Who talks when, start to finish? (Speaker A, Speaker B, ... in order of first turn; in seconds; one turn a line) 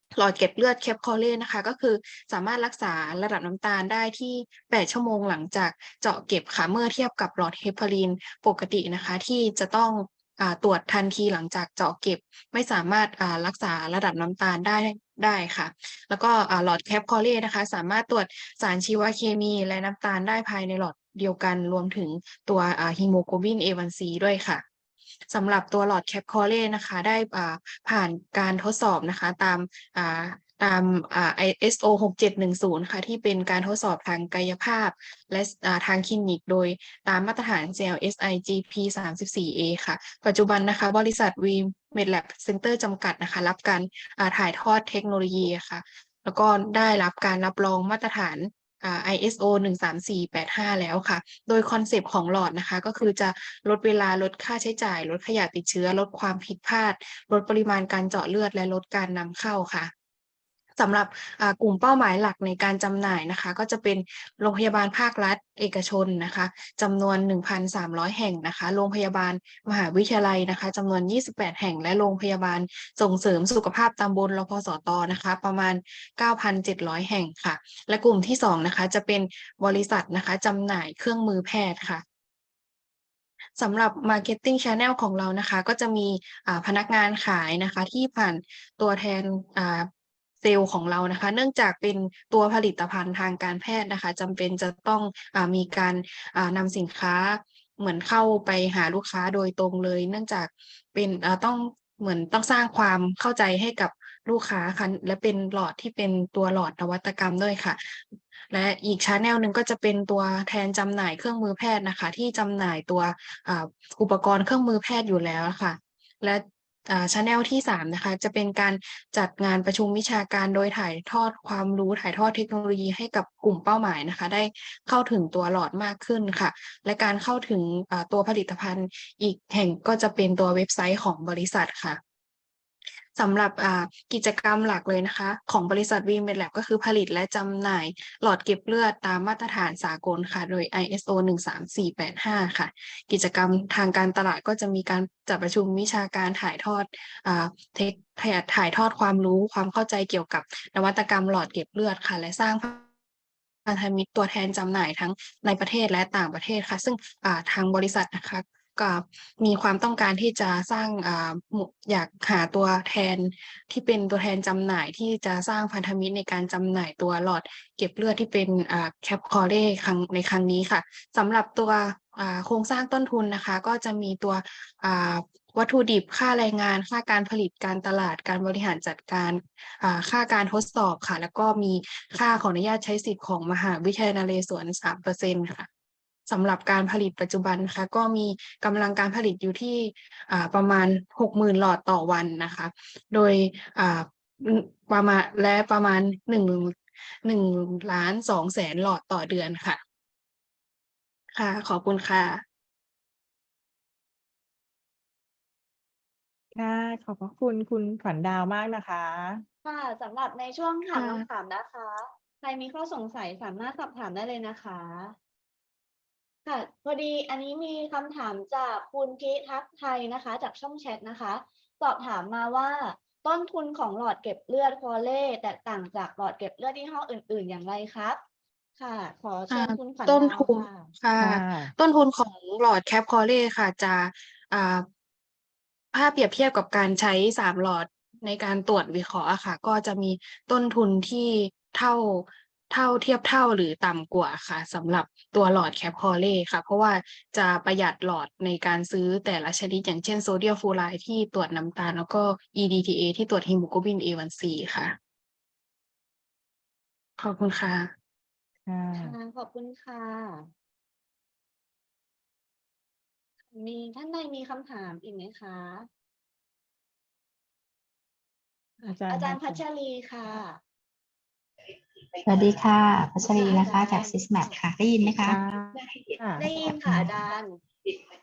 Speaker A: 0.2-24.6
Speaker A: 25.3-59.9
Speaker A: 60.8-82.0
Speaker A: 83.6-89.9
Speaker A: 90.4-132.0
Speaker A: 133.2-152.8
Speaker A: 153.7-185.7
Speaker A: 186.3-199.8
Speaker A: 201.3-202.4
Speaker B: 206.5-209.4
Speaker C: 209.6-215.2
Speaker A: 210.9-211.2
Speaker C: 216.4-228.2
Speaker C: 228.8-230.9
Speaker A: 229.5-234.8
Speaker B: 231.2-231.7
Speaker A: 235.9-254.9
Speaker A: 257.2-257.9
Speaker B: 258.6-259.1
Speaker C: 258.9-260.5
Speaker C: 263.5-265.9
Speaker B: 268.8-269.6
Speaker C: 269.1-270.6
Speaker D: 272.2-277.3
Speaker C: 273.2-274.6
Speaker B: 275.2-276.5
Speaker C: 276.4-277.6